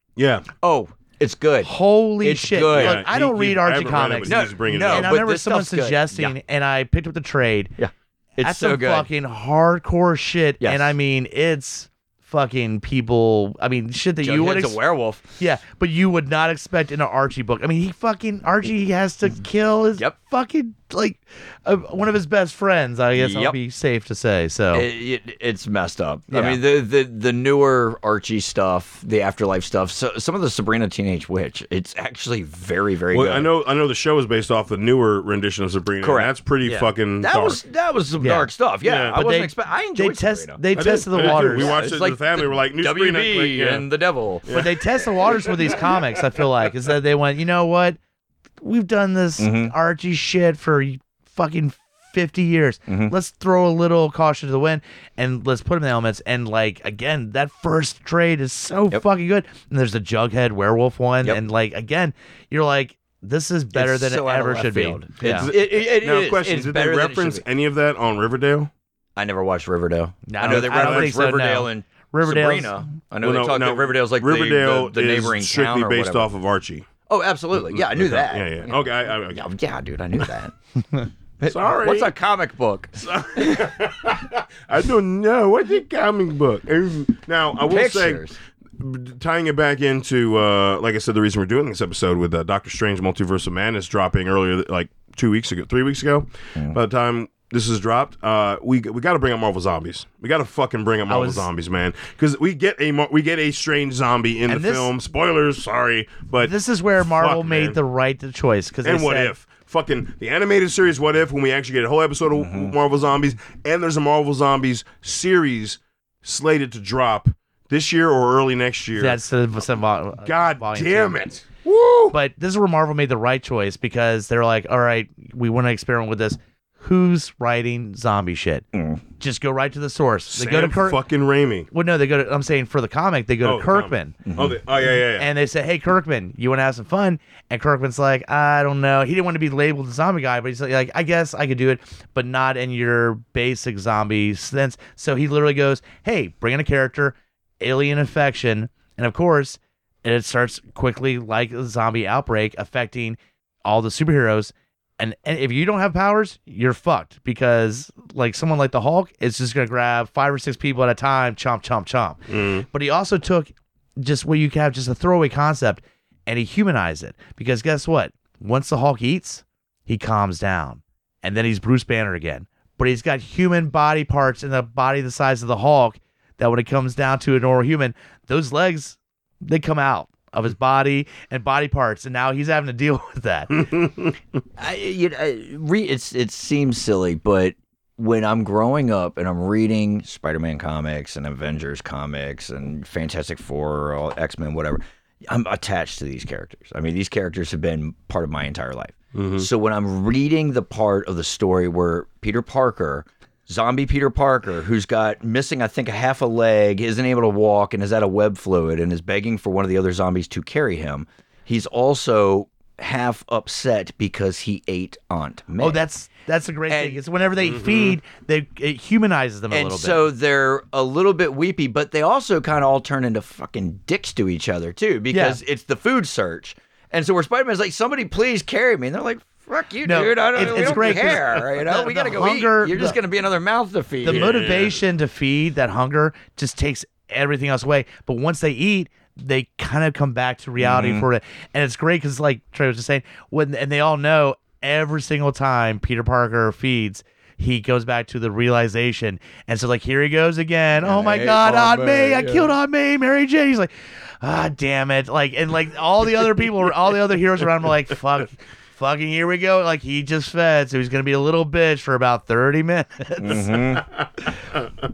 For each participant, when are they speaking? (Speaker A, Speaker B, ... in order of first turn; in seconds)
Speaker A: 0.2-0.5, 2.7-5.2, 33.1-37.6, 38.8-39.2, 40.7-43.9, 44.4-44.8, 65.2-68.7, 70.4-71.2, 73.2-76.9, 77.6-79.4, 81.4-82.1, 83.0-88.3, 88.8-107.8, 108.8-119.2, 120.2-122.2, 130.3-131.7, 133.4-135.3, 162.3-162.7, 183.5-184.1, 199.1-199.5, 217.4-218.0, 230.3-231.3, 234.1-234.8
Speaker B: 0.6-3.0, 4.2-6.4, 7.8-9.1, 10.6-10.9, 14.2-15.2, 23.1-23.6, 24.7-33.5, 36.0-44.5, 49.4-49.7, 52.9-53.1, 63.7-67.4, 69.2-76.3, 77.1-80.5, 81.4-83.8, 87.6-88.4, 112.3-112.7, 128.7-129.0, 134.2-134.6, 184.6-215.8, 216.7-217.0, 219.5-234.4, 240.6-241.1, 250.8-252.6, 263.2-263.8
Speaker C: 1.6-7.7, 8.4-14.8, 15.4-24.9, 26.3-26.6, 38.2-38.5, 39.1-41.7, 44.5-48.0, 48.6-65.5, 70.3-72.9, 101.1-101.5, 104.5-104.9, 106.4-109.3, 119.0-121.2, 122.1-128.6, 129.2-131.0, 131.7-134.2, 135.2-183.6, 215.6-220.1, 225.1-225.4, 229.8-233.0, 234.0-253.7, 254.2-263.5